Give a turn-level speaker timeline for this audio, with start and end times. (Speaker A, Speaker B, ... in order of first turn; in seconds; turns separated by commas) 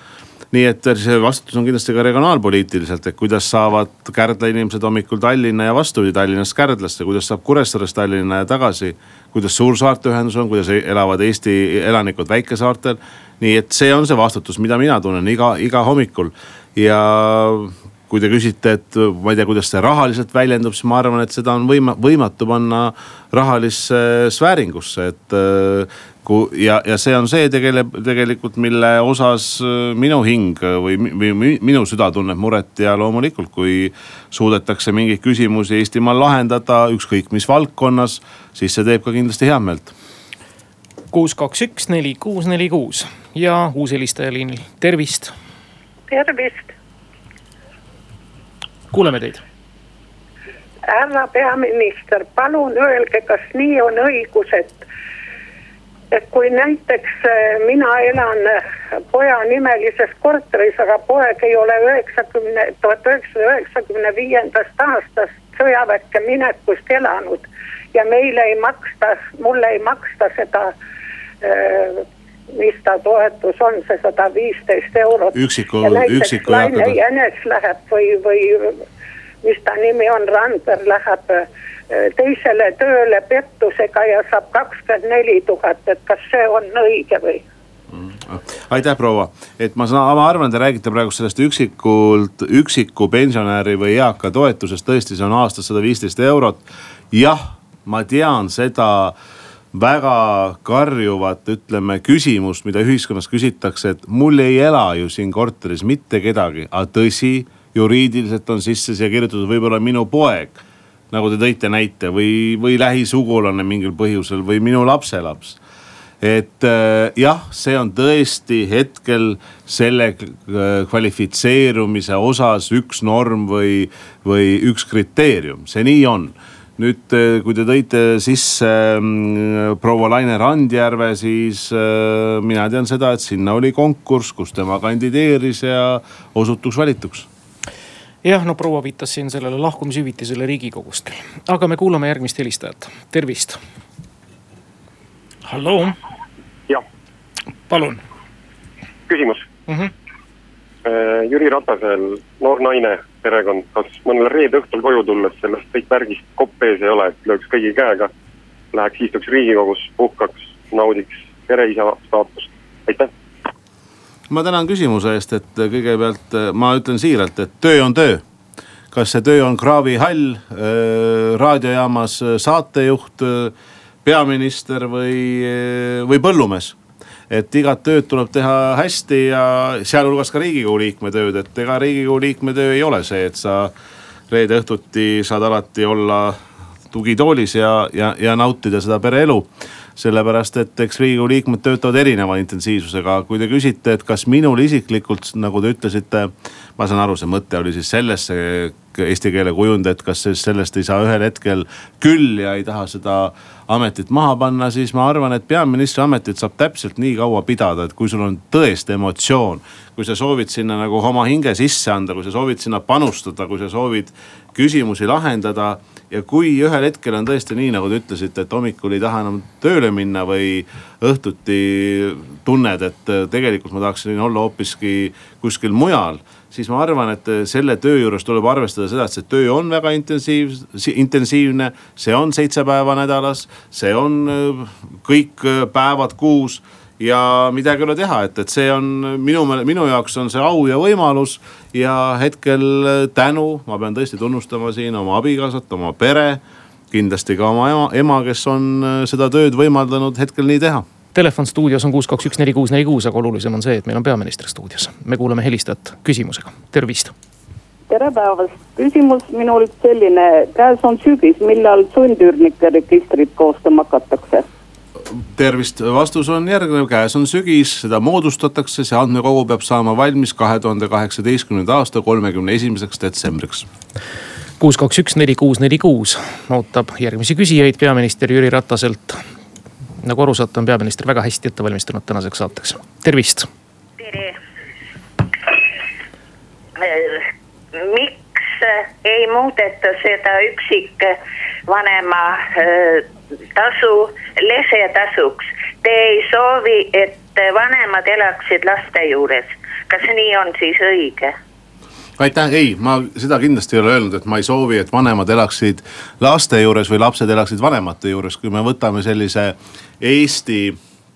Speaker A: 0.5-39.9, Speaker B: 41.1-45.3, Speaker C: 46.1-46.7, Speaker B: 48.9-49.4, Speaker C: 50.9-54.8, Speaker C: 56.1-70.7, Speaker C: 71.4-72.0, Speaker C: 72.5-78.8, Speaker A: 75.3-77.0, Speaker C: 79.4-87.4, Speaker A: 87.9-99.1, Speaker A: 99.7-110.6, Speaker A: 111.1-115.6, Speaker A: 116.2-137.3, Speaker B: 138.2-143.6, Speaker B: 145.5-146.0, Speaker B: 147.7-148.0, Speaker D: 149.1-149.5, Speaker D: 150.8-158.1, Speaker D: 158.7-163.1, Speaker A: 164.3-168.2, Speaker A: 168.9-173.5, Speaker A: 174.1-176.8, Speaker A: 177.3-183.7, Speaker A: 184.3-186.4, Speaker A: 186.9-250.8, Speaker B: 251.1-257.1, Speaker E: 257.9-264.4, Speaker A: 265.4-273.7, Speaker B: 274.6-279.2, Speaker B: 280.0-283.5, Speaker F: 284.0-284.4, Speaker F: 286.8-287.3, Speaker F: 287.8-301.3, Speaker A: 302.2-310.8